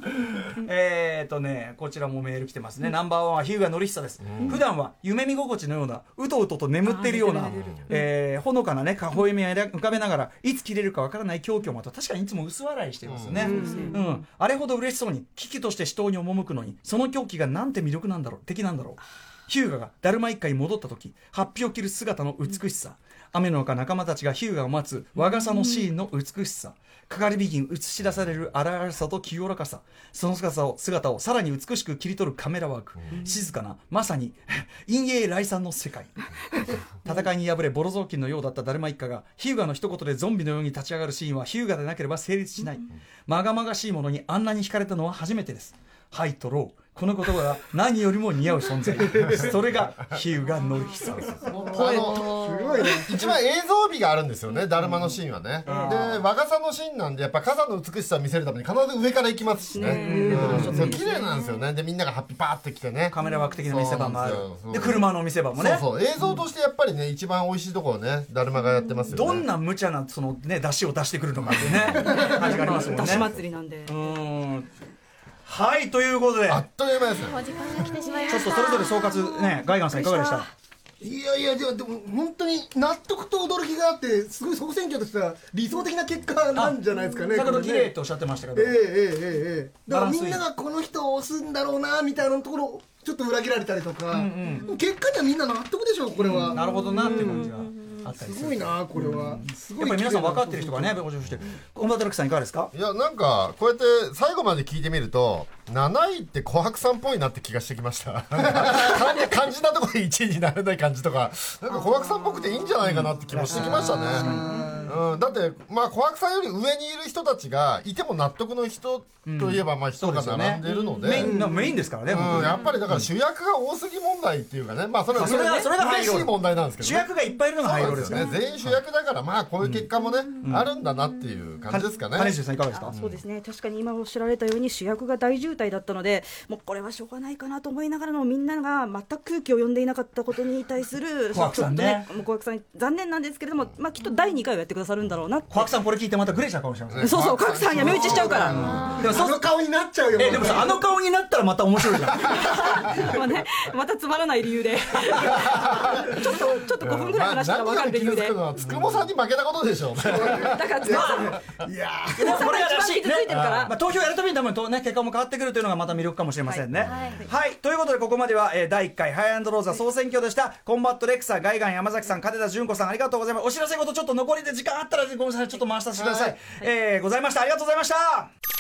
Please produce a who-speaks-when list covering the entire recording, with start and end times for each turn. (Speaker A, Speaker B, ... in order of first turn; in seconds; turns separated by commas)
Speaker A: 0.4-51.6, Speaker B: 4.2-4.6, Speaker C: 6.8-8.1, Speaker B: 13.1-13.6, Speaker C: 13.4-14.2, Speaker D: 13.4-14.0, Speaker C: 25.6-25.9, Speaker B: 49.2-50.1, Speaker B: 51.2-63.2, Speaker D: 51.6-53.3, Speaker C: 51.6-52.6, Speaker A: 54.8-55.1, Speaker A: 55.6-56.2, Speaker C: 59.7-61.1, Speaker D: 59.9-60.8, Speaker A: 60.5-61.0, Speaker E: 61.1-61.4, Speaker A: 63.1-65.9, Speaker B: 63.7-69.5, Speaker A: 69.1-73.3, Speaker B: 71.6-72.1, Speaker D: 72.0-72.8, Speaker C: 72.1-74.0, Speaker B: 73.0-73.3, Speaker A: 73.9-74.7, Speaker A: 75.5-76.7, Speaker B: 76.5-77.4, Speaker E: 77.2-79.3, Speaker A: 78.3-80.5, Speaker C: 78.5-80.5, Speaker D: 81.0-87.9, Speaker A: 87.3-88.8, Speaker D: 88.5-97.5, Speaker A: 89.9-90.4, Speaker A: 94.1-94.7, Speaker A: 96.2-102.7, Speaker C: 97.0-97.3, Speaker D: 98.1-101.0, Speaker B: 102.7-132.4, Speaker A: 112.8-114.9, Speaker D: 113.4-114.9, Speaker A: 119.2-123.1, Speaker D: 121.1-121.8, Speaker A: 125.1-128.4, Speaker C: 125.2-125.7, Speaker A: 129.6-129.9, Speaker A: 130.4-130.7, Speaker A: 131.7-132.9, Speaker C: 132.7-145.7, Speaker B: 132.9-133.2, Speaker A: 141.3-142.1, Speaker A: 145.5-149.5, Speaker B: 146.9-149.1, Speaker C: 147.0-148.6, Speaker D: 148.5-150.8, Speaker E: 148.7-149.1, Speaker A: 150.1-153.0, Speaker C: 152.3-158.4, Speaker B: 155.4-160.8, Speaker D: 160.0-162.4, Speaker C: 160.3-161.4, Speaker A: 160.9-161.3, Speaker A: 162.2-178.3, Speaker C: 162.2-163.8, Speaker B: 163.3-163.7, Speaker C: 166.4-167.3, Speaker E: 166.8-167.2, Speaker B: 176.0-176.4